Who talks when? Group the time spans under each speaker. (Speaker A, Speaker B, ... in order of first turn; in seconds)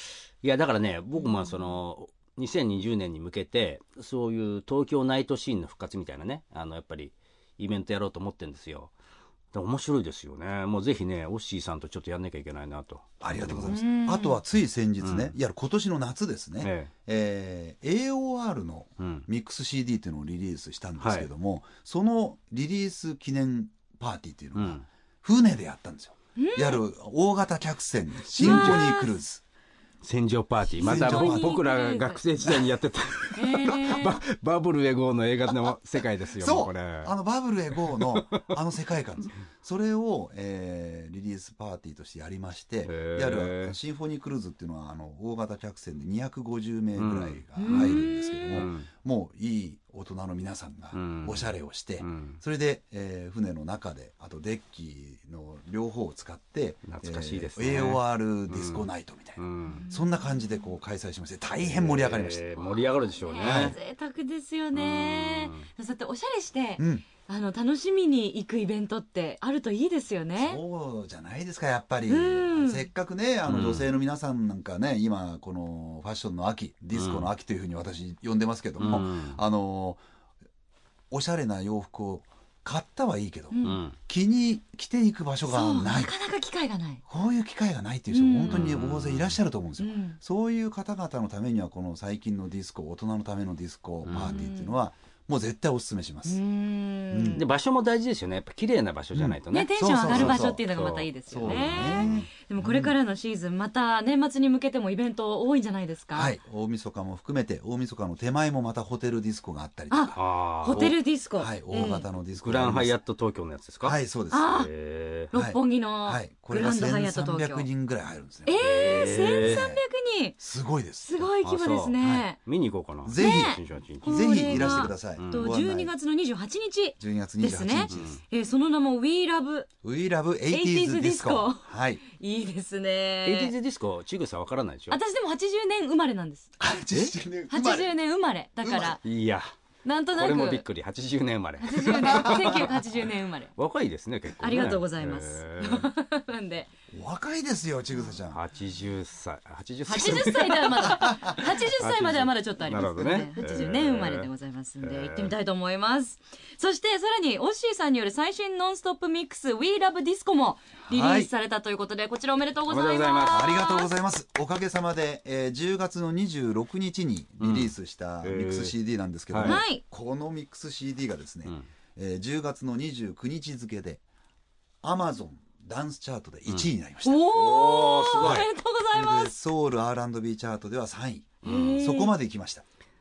Speaker A: 0.4-8.9, 9.5-13.8, 15.0-15.3, 16.6-16.9, 19.0-19.2, 21.0-21.3, 24.5-24.9, 28.4-28.9, 30.0-37.1, 37.8-38.6, 42.9-43.8, 47.0-48.9, 50.9-52.4, 56.8-59.9, 61.6-63.8, 64.7-65.7, 73.5-73.9, 76.9-77.3, 78.8-79.4, 83.6-84.0, 88.5-89.4, 94.0-94.4, 97.3-102.3, 110.1-111.0, 112.4-115.3, 118.6-119.6, 121.4-125.5, 127.9-128.2, 133.2-135.0, 139.0-139.5, 140.2-142.8, 143.6-145.9, 148.3-154.3, 154.8-155.3, 162.7-163.5, 167.4-168.8, 169.3-169.6, 177.4-178.5, 181.4-181.8
Speaker B: 1.2-1.7, 13.7-14.4, 26.4-26.8, 28.4-29.1, 30.7-32.2, 33.3-34.2, 47.5-48.6, 59.6-60.1, 63.2-70.6, 72.1-72.9, 83.5-83.8, 85.5-87.0, 88.1-88.6, 89.8-90.2, 94.2-94.7, 96.2-97.4, 99.5-106.3, 109.9-112.0, 114.3-114.7, 115.3-117.7, 118.4-120.4, 121.0-122.4, 123.2-129.7, 130.5-133.5, 134.9-136.5, 137.5-139.0, 139.8-140.6, 141.6-143.5, 144.4-146.7, 149.9-163.9, 169.4-169.8, 177.0-179.3, 181.4-182.1
Speaker C: 13.2-29.4, 30.8-31.6, 36.4-62.4, 63.4-63.8, 66.8-67.0, 70.4-80.0, 81.1-86.1, 87.1-96.4, 97.1-97.4, 99.1-100.7, 101.3-102.9, 106.1-110.2, 111.4-113.0, 113.8-114.6, 115.3-119.8, 120.4-121.3, 122.0-122.3, 123.0-125.9, 127.0-128.1, 129.8-132.0, 136.6-137.9, 138.6-139.0, 142.1-142.6, 146.9-148.4, 151.0-151.4, 160.8-161.3, 163.3-174.0, 174.8-182.6